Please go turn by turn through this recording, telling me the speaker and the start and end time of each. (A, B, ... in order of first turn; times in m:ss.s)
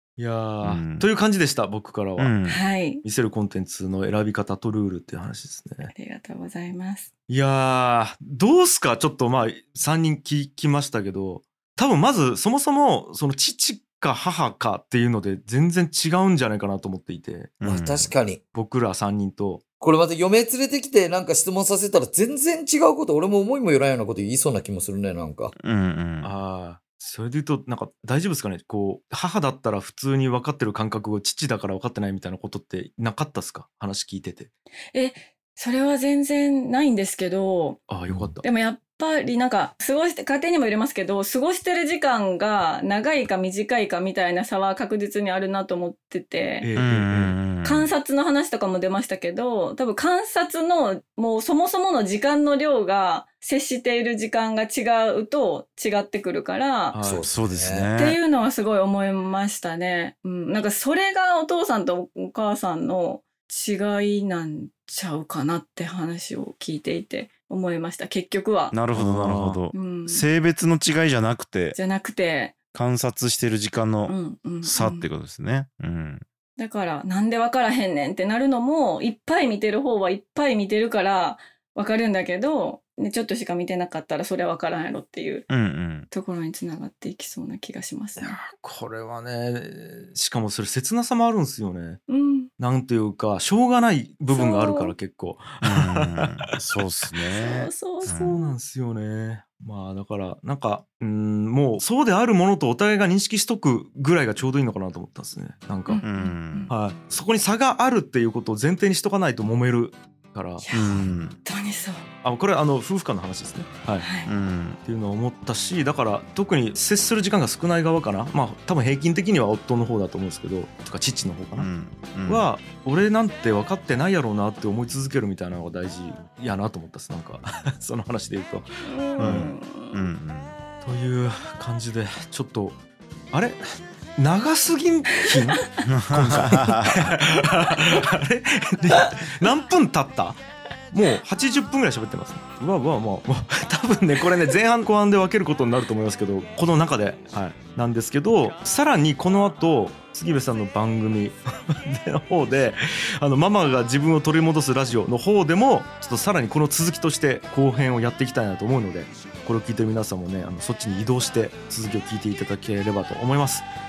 0:00.2-0:02.3 A
0:00.6-0:01.1 B
0:02.2-0:02.6 B
0:02.4-0:03.0 C
0:03.0-0:05.9 A
0:05.9-0:07.1 C
0:07.3-0:17.6 A
0:17.6-0:18.1 B
0:17.6-0:18.4 D
0:18.5-0:19.6 A
0:19.8-0:25.5 D
0:25.6-0:26.3 B
0:26.2-0:34.5 A
0:34.9-0:37.9 C
0:37.9-0:38.4 A
0:38.4-0:46.7 C
0:46.6-0:47.4 A
0:46.8-0:47.9 B
0:47.6-0:57.0 C
0:56.9-0:57.3 A
0:57.0-0:57.9 D
0:57.2-0:58.2 B
0:58.0-1:08.8 C
1:08.7-1:11.8 B
1:08.9-1:09.6 A
1:09.7-1:10.2 C
1:11.7-1:12.5 C
1:12.7-1:16.2 B
1:14.0-1:15.1 C
1:16.6-1:25.5 C
1:25.5-1:26.1 B
1:26.1-1:28.4 C
1:28.2-1:32.0 A
1:32.1-1:32.5 C
1:32.6-1:36.4 A
1:34.3-1:34.9 C
1:35.6-1:38.3 B
1:37.3-1:38.6 C
1:38.0-1:46.0 A
1:45.9-1:46.7 C
1:46.0-1:46.7 B
1:46.7-1:50.6 A
1:50.6-1:52.1 C
1:50.7-1:51.4 B
1:52.2-1:54.1 A
1:54.0-1:54.3 C
1:54.2-1:54.8 B
1:54.8-2:01.7 A
2:01.6-2:02.4 B
2:02.2-2:09.5 A
2:08.8-2:10.1 C
2:09.2-2:10.5 B
2:10.8-2:12.8 A
2:13.3-2:13.6 A
2:14.2-2:20.4 A
2:15.8-2:17.1 B
2:20.9-2:43.7 A